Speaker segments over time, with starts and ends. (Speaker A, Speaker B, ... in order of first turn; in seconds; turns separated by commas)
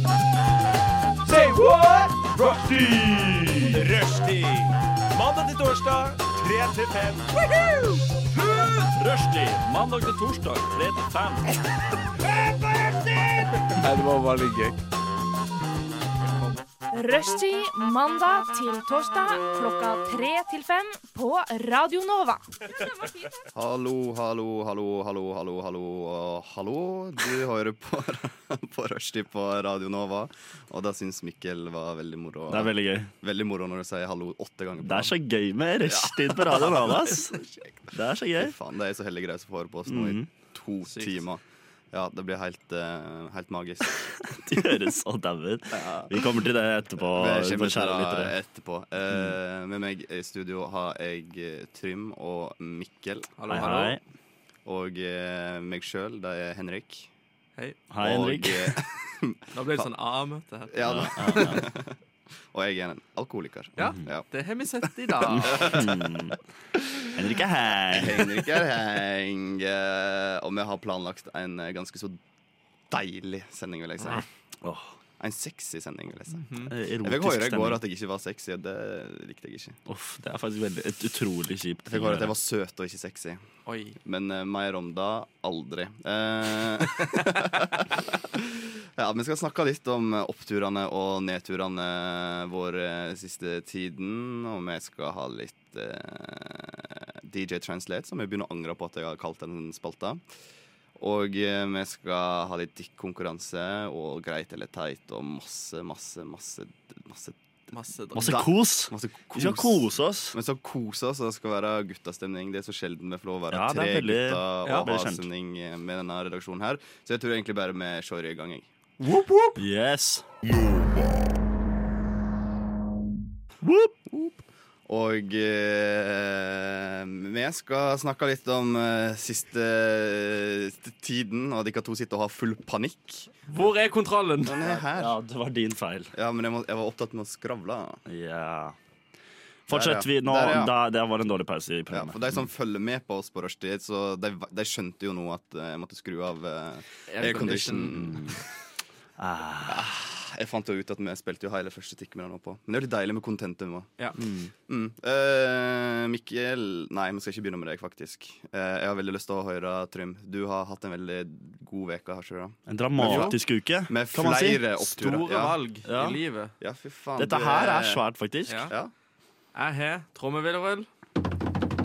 Speaker A: 1.2-7.7, Speaker B: 3.1-3.5, Speaker A: 8.3-11.4, Speaker A: 12.7-14.8, Speaker C: 16.9-23.1, Speaker D: 23.5-35.1, Speaker B: 32.5-33.1, Speaker B: 34.8-37.4, Speaker D: 35.9-44.7, Speaker B: 37.9-38.5, Speaker B: 39.9-40.3, Speaker E: 40.9-41.2, Speaker B: 44.3-48.3, Speaker D: 45.8-46.2, Speaker D: 47.1-53.3, Speaker B: 49.1-49.4, Speaker E: 53.4-54.0, Speaker B: 53.5-54.0, Speaker D: 54.6-57.1, Speaker B: 57.9-58.8, Speaker D: 58.0-59.9, Speaker E: 59.5-61.6, Speaker D: 60.7-61.9, Speaker B: 60.9-61.7, Speaker D: 62.5-64.3, Speaker E: 63.8-65.9, Speaker D: 65.2-66.1, Speaker B: 65.3-66.4, Speaker B: 67.1-68.4, Speaker D: 67.9-72.2, Speaker D: 72.9-74.2, Speaker E: 74.0-74.2, Speaker B: 74.6-74.9, Speaker D: 75.2-79.8, Speaker E: 76.3-76.7, Speaker B: 76.7-77.8, Speaker B: 79.9-82.3, Speaker D: 81.9-83.4, Speaker E: 83.7-84.0, Speaker D: 84.0-100.2, Speaker D: 101.0-107.4, Speaker E: 107.7-108.5, Speaker B: 108.1-110.4, Speaker D: 108.2-118.7, Speaker B: 113.5-115.3, Speaker E: 114.6-114.9, Speaker E: 119.0-119.5, Speaker B: 119.6-120.3, Speaker B: 123.6-123.9, Speaker D: 124.1-133.5, Speaker E: 133.5-134.7, Speaker D: 134.4-135.1, Speaker B: 134.9-136.1, Speaker D: 136.1-138.0, Speaker B: 138.1-138.8, Speaker B: 139.7-142.4, Speaker D: 139.7-140.7, Speaker D: 141.9-148.3, Speaker E: 147.1-148.1, Speaker B: 147.9-148.4, Speaker B: 149.2-149.9, Speaker D: 149.7-165.5, Speaker B: 154.2-154.5, Speaker B: 162.7-164.8, Speaker E: 163.0-163.4, Speaker E: 164.8-166.5, Speaker B: 165.8-166.2, Speaker D: 166.6-168.0, Speaker B: 167.2-168.7, Speaker E: 168.5-168.7, Speaker E: 169.5-170.9